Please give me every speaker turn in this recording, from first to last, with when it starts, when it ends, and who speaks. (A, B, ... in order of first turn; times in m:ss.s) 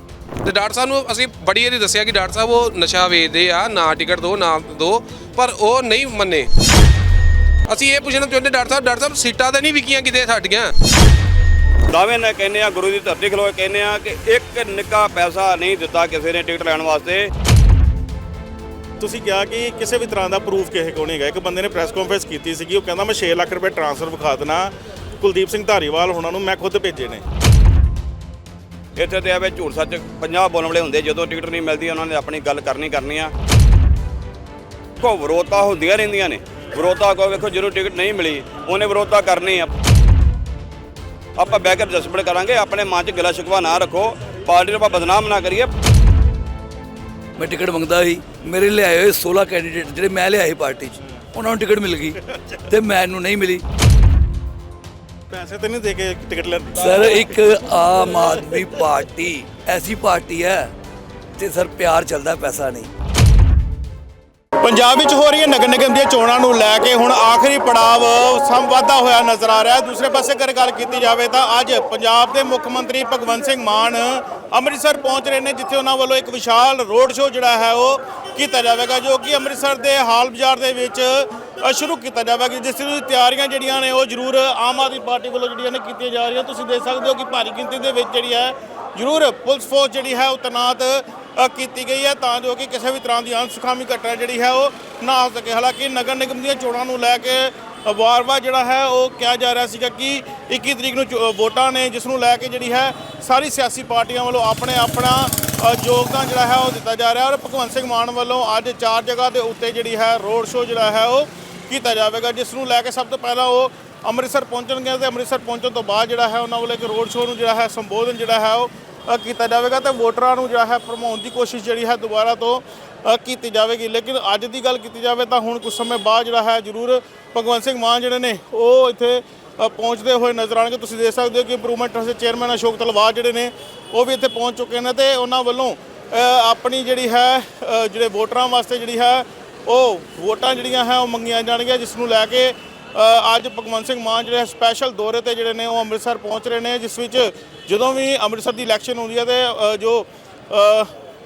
0:00.4-0:06.5 A
0:07.7-0:10.7 A
0:11.9-0:17.3 B
0:19.0-0:27.2 C
0:29.0-0:33.3 B
0:35.0-0:39.7 B
0:41.4-0:45.7 B
0:47.4-0:52.2 D
0:52.7-0:53.6 D
0:55.3-0:57.3 C
0:56.8-1:00.7 D
1:01.4-1:02.9 D
1:04.6-2:30.9 C